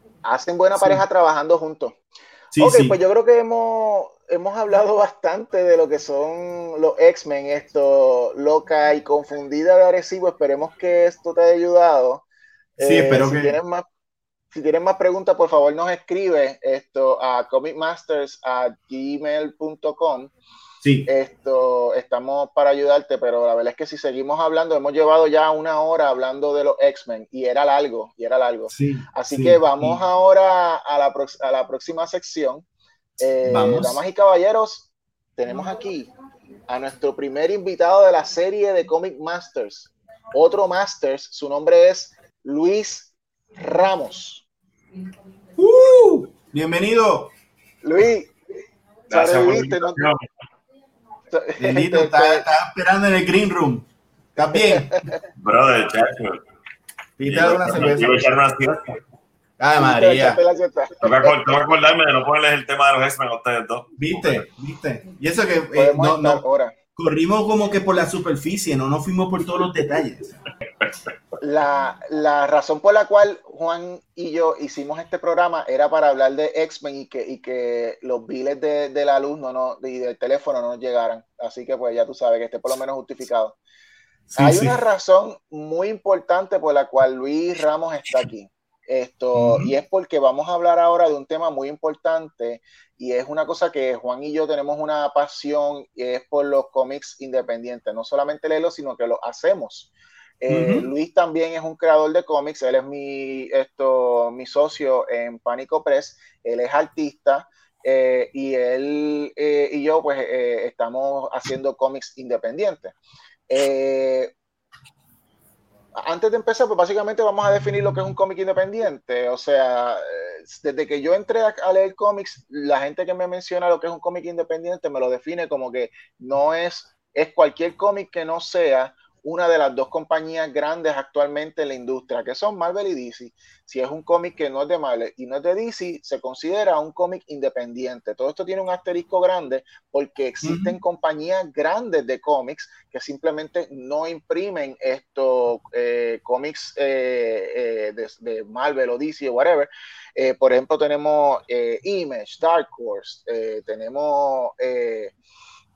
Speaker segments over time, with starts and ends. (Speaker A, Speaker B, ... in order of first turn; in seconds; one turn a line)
Speaker A: 0.2-2.0
Speaker B: 0.8-1.0
Speaker B: 2.5-3.0
Speaker A: 2.6-12.2
Speaker A: 12.8-13.9
Speaker B: 12.8-13.6
Speaker A: 14.5-20.3
Speaker B: 20.8-21.1
Speaker A: 21.1-32.6
Speaker B: 28.7-30.0
Speaker A: 33.2-36.1
Speaker B: 33.5-34.0
Speaker A: 36.7-44.5
Speaker B: 45.6-47.3
Speaker A: 47.8-48.3
Speaker A: 49.1-50.1
Speaker C: 49.1-50.2
Speaker A: 51.3-52.5
Speaker B: 51.6-55.0
Speaker A: 54.4-55.2
Speaker C: 55.4-56.4
Speaker B: 57.2-58.2
Speaker C: 57.2-59.0
Speaker B: 59.6-60.4
Speaker A: 59.8-61.6
Speaker C: 61.0-64.4
Speaker B: 64.0-66.4
Speaker A: 65.8-66.8
Speaker B: 67.0-70.4
Speaker A: 71.4-83.6
Speaker B: 84.3-84.8
Speaker A: 84.4-113.0
Speaker B: 89.3-89.7
Speaker B: 100.5-100.9
Speaker A: 113.5-114.3
Speaker A: 116.0-155.1
Speaker B: 140.4-140.8